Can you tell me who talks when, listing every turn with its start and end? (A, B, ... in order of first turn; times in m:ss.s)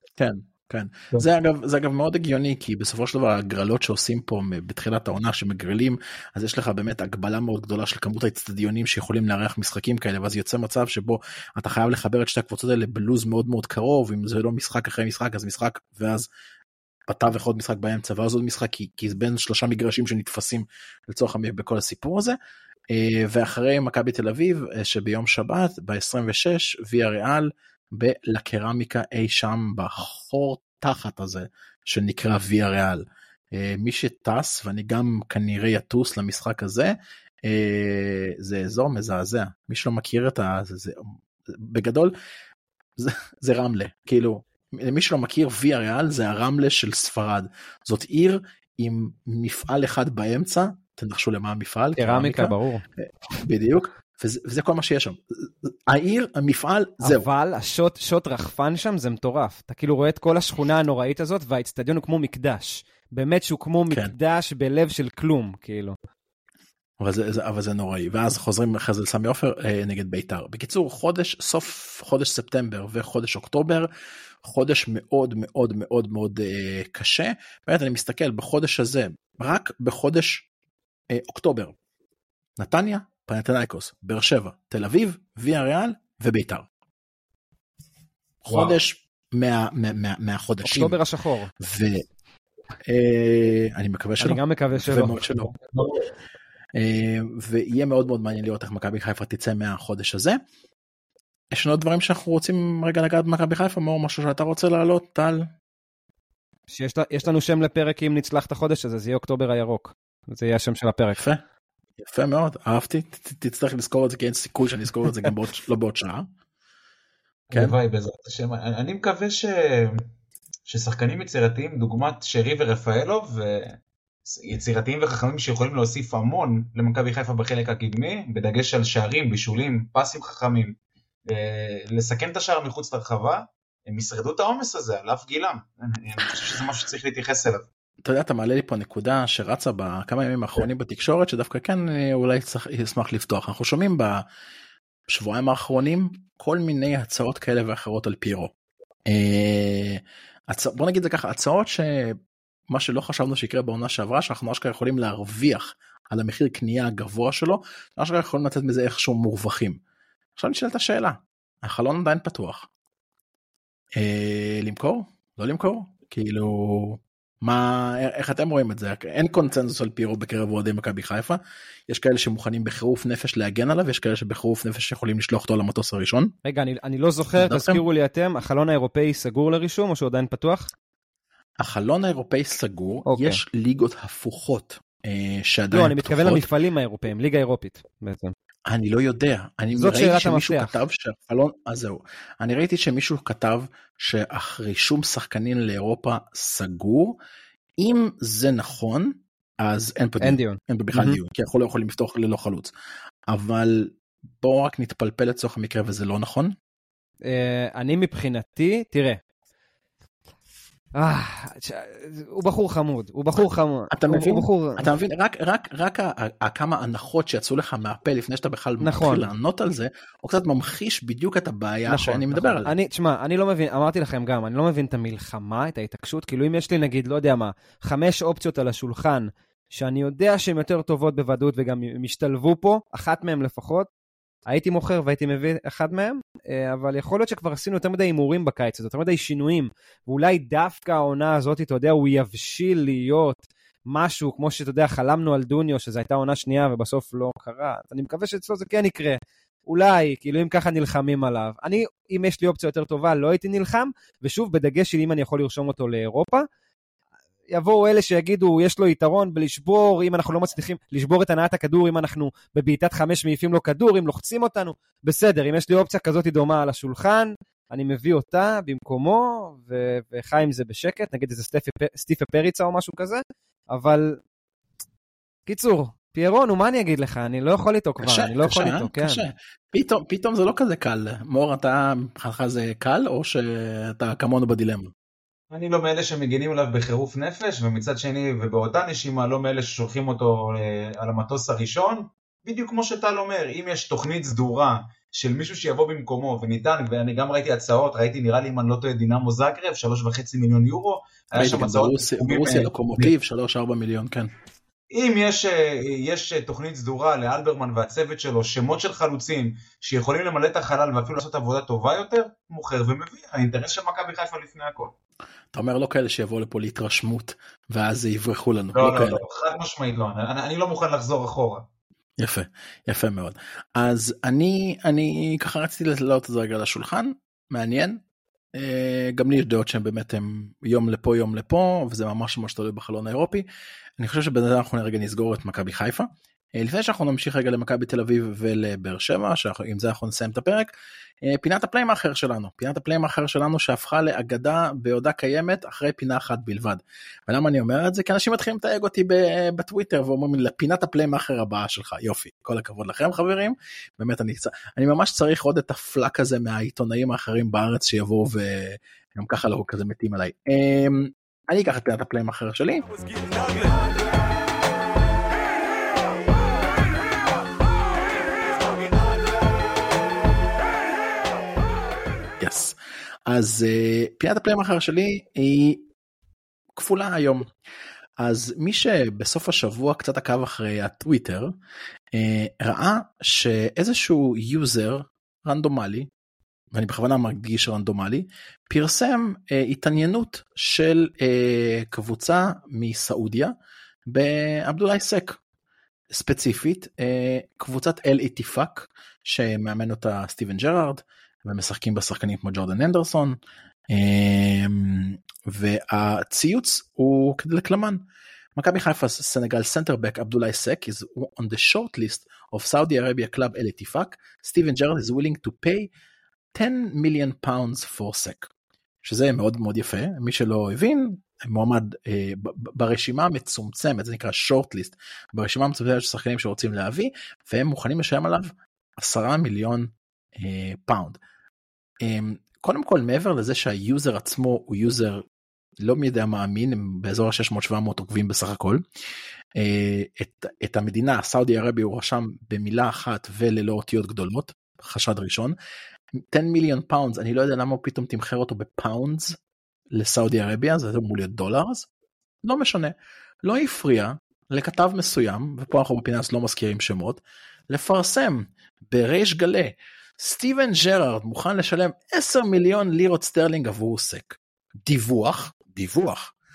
0:00.2-0:16.3 A
0:17.1-0:22.4 A
0:22.9-0:42.1 A
0:43.0-0:57.3 A
0:52.0-0:52.8 B
0:57.0-1:06.0 B
1:07.0-1:13.9 A
1:14.4-1:20.5 A
1:21.1-1:21.7 A
1:22.6-1:26.7 A
1:28.4-1:31.0 A
1:28.5-1:28.8 B
1:30.6-1:31.5 B
1:31.6-1:32.1 A
1:32.9-1:35.6 A
1:34.2-1:35.2 B
1:36.8-1:40.4 A
1:41.5-1:45.5 A
1:46.7-1:51.2 B
1:51.2-1:51.4 A
1:52.0-1:56.3 A
1:57.5-2:00.0 C
2:00.7-2:10.7 C
2:11.3-2:17.7 C
2:18.0-2:24.2 A
2:25.1-2:28.5 A
2:29.1-2:32.2 A
2:32.7-2:39.8 A
2:40.4-2:42.7 A
2:44.0-2:56.3 A
2:56.4-3:00.7 B
2:57.4-2:57.8 A
3:01.6-3:06.5 A
3:03.1-3:03.4 B
3:05.7-3:08.3 B
3:08.7-3:17.2 A
3:09.7-3:10.8 B
3:17.8-3:22.7 A
3:20.2-3:21.2 B
3:23.3-3:26.6 A
3:27.2-3:29.2 B
3:31.0-3:34.9 B
3:33.9-3:42.7 A
3:38.8-3:39.3 B
3:41.9-3:53.9 B
3:54.5-4:16.5 B
4:17.5-4:33.2 B
4:33.7-4:34.2 B
4:35.5-4:39.2 B
4:38.0-4:44.9 A
4:45.5-5:03.1 C
5:01.3-5:04.3 A
5:04.9-5:14.9 C
5:15.5-5:19.2 A
5:18.8-5:21.6 C
5:22.2-5:28.0 A
5:28.6-5:33.4 A
5:34.0-5:40.7 A
5:41.2-6:02.9 A
6:12.4-6:12.8 A
6:13.3-6:15.9 A
6:16.8-6:17.5 A
6:18.2-6:21.5 A
6:22.1-6:26.1 A
6:26.7-6:33.6 A
6:34.1-6:35.4 A
6:36.1-6:43.4 A
6:43.9-6:48.0 A
6:48.6-6:55.9 A
6:56.6-6:58.5 A
6:59.0-7:11.2 A
7:12.0-7:15.2 A
7:15.8-7:18.8 A
7:19.6-7:25.6 A
7:26.2-7:29.4 A
7:29.9-7:31.9 A
7:32.4-7:46.3 A